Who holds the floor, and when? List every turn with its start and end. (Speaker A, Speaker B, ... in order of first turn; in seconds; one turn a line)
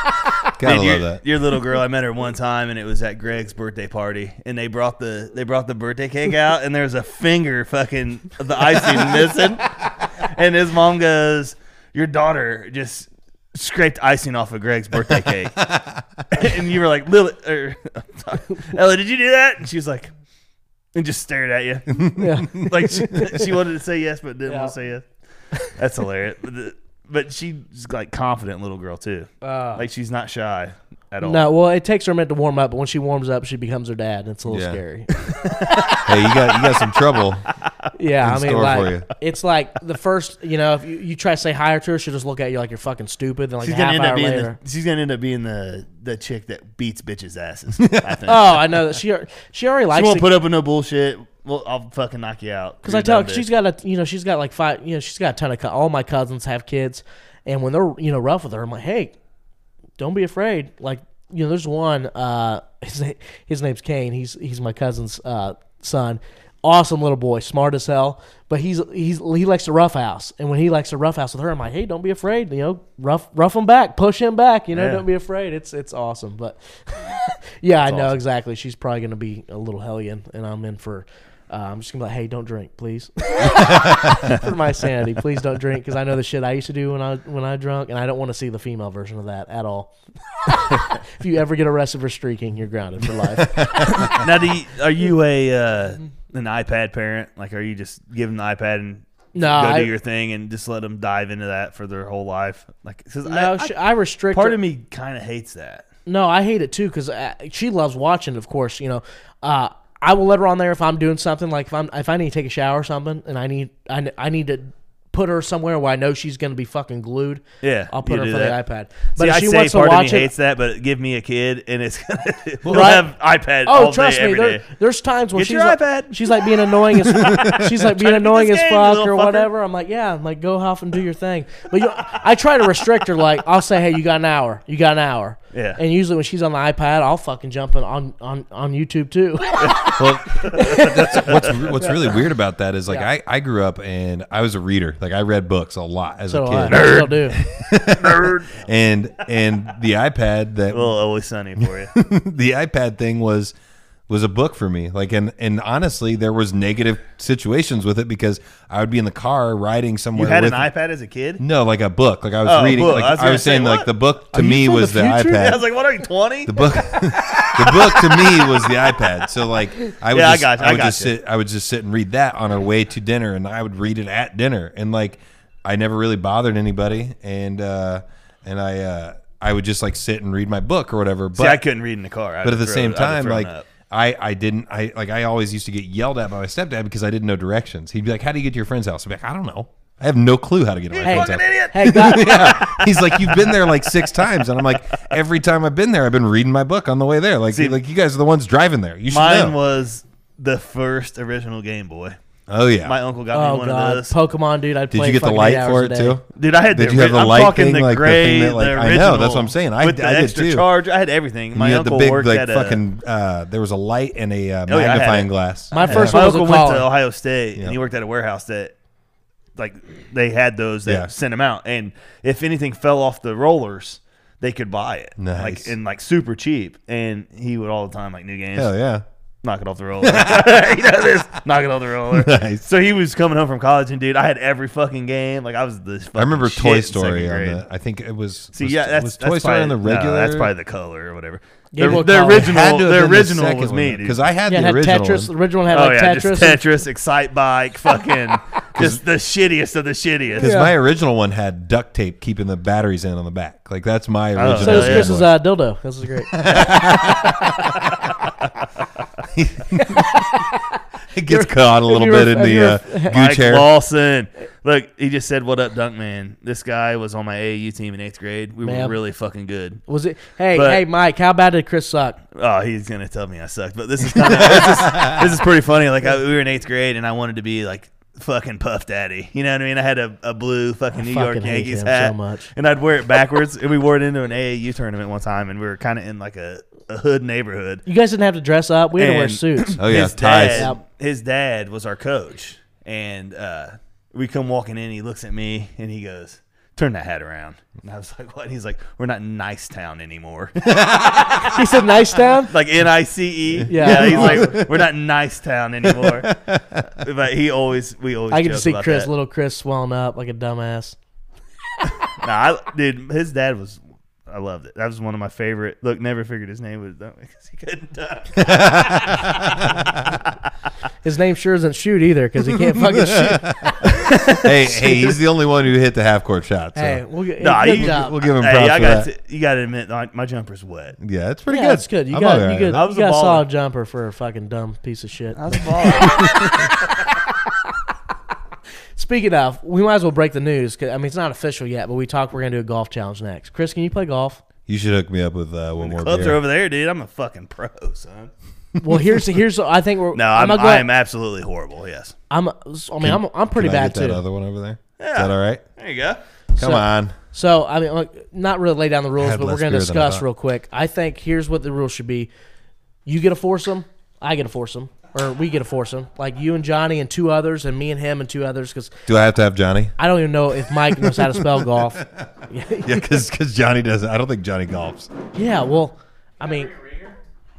Speaker A: 0.6-1.2
Speaker B: 0.6-15.7
Speaker A: 15.7-16.2
Speaker B: 16.3-20.1
Speaker B: 20.9-25.0
Speaker C: 22.2-23.5
Speaker C: 24.5-24.7
Speaker B: 25.8-31.5
Speaker C: 29.4-29.9
Speaker C: 31.2-35.8
Speaker A: 34.5-34.8
Speaker B: 35.4-35.8
Speaker A: 36.0-37.4
Speaker C: 38.0-44.6
Speaker A: 38.2-39.1
Speaker B: 43.6-48.9
Speaker C: 48.3-50.3
Speaker B: 49.9-53.5
Speaker C: 52.8-59.1
Speaker C: 60.0-89.9
Speaker B: 74.7-75.0
Speaker B: 77.9-78.2
Speaker C: 90.5-94.0
Speaker A: 93.4-94.1
Speaker B: 93.9-103.8
Speaker C: 99.3-99.9
Speaker C: 103.2-104.6
Speaker B: 104.3-105.8
Speaker C: 106.1-120.3
Speaker B: 117.6-118.6
Speaker B: 119.1-124.7
Speaker A: 122.7-123.0
Speaker C: 122.7-123.1
Speaker C: 123.7-141.3
Speaker B: 125.3-129.5
Speaker A: 127.2-127.5
Speaker B: 135.5-135.8
Speaker B: 139.6-139.9
Speaker A: 139.9-151.0
Speaker B: 140.5-141.9
Speaker C: 146.3-147.4
Speaker B: 146.7-148.6
Speaker B: 150.7-151.9
Speaker A: 151.6-153.5
Speaker A: 154.1-160.7
Speaker B: 160.2-161.4
Speaker A: 161.4-165.7
Speaker B: 162.4-163.9
Speaker C: 164.3-165.6
Speaker B: 165.3-168.3
Speaker A: 166.4-181.6
Speaker B: 170.1-171.1
Speaker B: 181.3-183.7
Speaker A: 182.4-199.6
Speaker B: 190.9-194.3
Speaker C: 191.1-192.6
Speaker B: 197.5-197.8
Speaker B: 199.1-202.2
Speaker A: 202.5-203.0
Speaker B: 202.8-204.1
Speaker C: 203.3-206.2
Speaker A: 204.9-210.7
Speaker B: 206.3-212.8
Speaker A: 211.5-216.4
Speaker B: 214.7-218.7
Speaker C: 215.7-216.9
Speaker B: 219.6-228.7
Speaker A: 225.2-225.7
Speaker A: 228.6-229.0
Speaker B: 229.4-237.6
Speaker A: 230.0-230.6
Speaker A: 232.1-232.6
Speaker A: 236.2-240.5
Speaker B: 238.6-244.2
Speaker C: 241.7-242.5
Speaker A: 241.8-245.3
Speaker C: 244.5-246.6
Speaker B: 245.7-250.5
Speaker A: 250.4-255.4
Speaker C: 250.4-250.7
Speaker B: 254.4-255.2
Speaker C: 254.6-256.4
Speaker A: 256.3-257.5
Speaker A: 259.3-260.2
Speaker C: 259.8-263.2
Speaker A: 261.1-263.7
Speaker B: 263.1-269.8
Speaker C: 268.6-269.0
Speaker C: 269.9-272.2
Speaker B: 270.6-270.8
Speaker B: 272.4-287.8
Speaker A: 274.9-275.2
Speaker C: 281.0-282.5
Speaker C: 287.9-289.8
Speaker B: 289.0-301.5
Speaker A: 289.8-290.7
Speaker C: 290.5-290.8
Speaker C: 301.4-302.6
Speaker B: 302.5-306.3
Speaker C: 303.7-304.7
Speaker A: 303.8-304.7
Speaker A: 305.8-306.9
Speaker B: 306.9-309.1
Speaker C: 308.3-311.0
Speaker B: 312.2-319.7
Speaker A: 318.4-320.1
Speaker C: 321.0-325.1
Speaker A: 322.7-327.0
Speaker B: 324.1-324.4
Speaker C: 326.8-328.2
Speaker B: 327.4-331.0
Speaker A: 327.7-329.1
Speaker A: 331.0-332.8
Speaker C: 331.5-336.9
Speaker B: 332.7-333.4
Speaker B: 335.4-336.4
Speaker C: 339.0-344.4
Speaker A: 344.7-346.4
Speaker B: 345.8-348.3
Speaker C: 348.8-350.9
Speaker B: 350.1-352.1
Speaker C: 352.3-354.2
Speaker A: 353.0-355.6
Speaker B: 355.0-356.2
Speaker C: 356.6-362.3
Speaker A: 356.6-357.1
Speaker A: 359.2-360.3
Speaker C: 363.1-369.0
Speaker A: 369.1-369.9
Speaker C: 370.0-373.2
Speaker A: 370.7-372.2
Speaker A: 372.8-375.1
Speaker C: 375.3-376.7
Speaker B: 376.4-377.2